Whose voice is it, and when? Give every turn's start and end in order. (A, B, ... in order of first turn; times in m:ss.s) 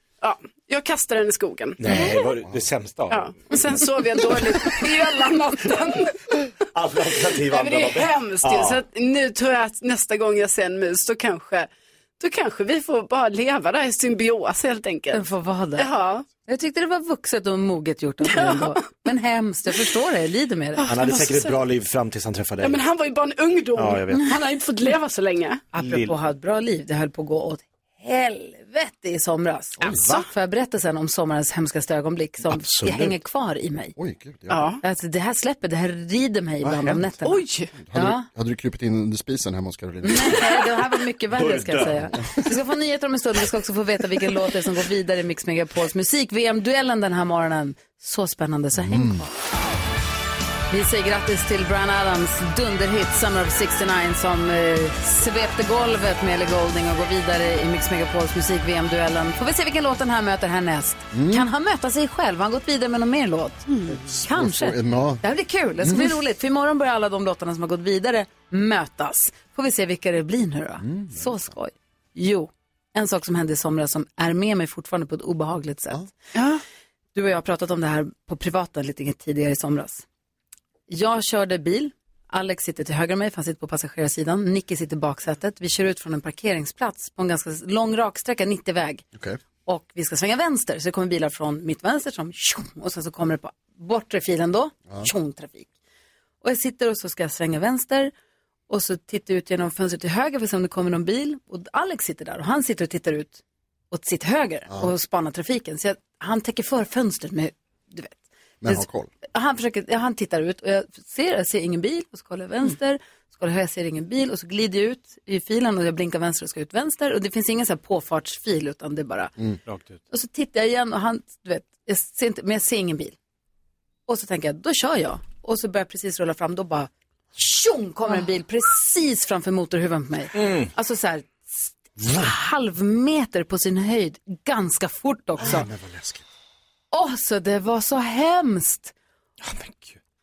0:00.2-0:02.1 A
0:01.8-0:03.6 B
0:03.1-0:06.2 A
0:06.7-0:08.8 B
0:07.3-0:15.2 A
0:15.1-0:15.9 C
0:15.8-0:16.2 A
0:16.4-0:20.8 C
0:18.3-0:18.8 A
0:20.8-0:21.6 A
0:20.9-0:22.8 B
0:22.6-0:25.7 A
0:23.8-0:24.3 B
0:25.7-0:34.0 C
0:25.8-0:26.1 B
0:29.8-0:30.3 A
0:32.4-0:33.2 B
0:34.0-0:34.8 D
0:34.5-0:34.8 A
0:34.8-0:37.4 C
0:36.7-0:37.0 D
0:37.2-0:37.7 A
0:37.8-0:40.6 D
0:37.9-0:38.3 C
0:40.0-0:49.3 C
0:41.3-0:42.1 B
0:48.8-0:49.2 D
0:50.7-1:03.6 C
1:01.1-1:01.5 D
1:03.7-1:04.0 A
1:03.9-1:05.2 D
1:04.2-1:16.1 C
1:05.8-1:06.1 D
1:10.8-1:11.4 D
1:16.4-1:16.6 A
1:17.2-1:20.0 C
1:20.9-1:29.0 C
1:29.7-1:35.7 C
1:36.4-1:38.1 C
1:38.7-1:59.3 C
1:48.6-1:49.1 D
1:59.7-2:00.0 B
2:00.1-2:03.2 C
2:04.1-2:15.7 C
2:10.4-2:10.7 B
2:15.4-2:16.2 D
2:16.9-2:18.9 C
2:19.4-2:20.0 B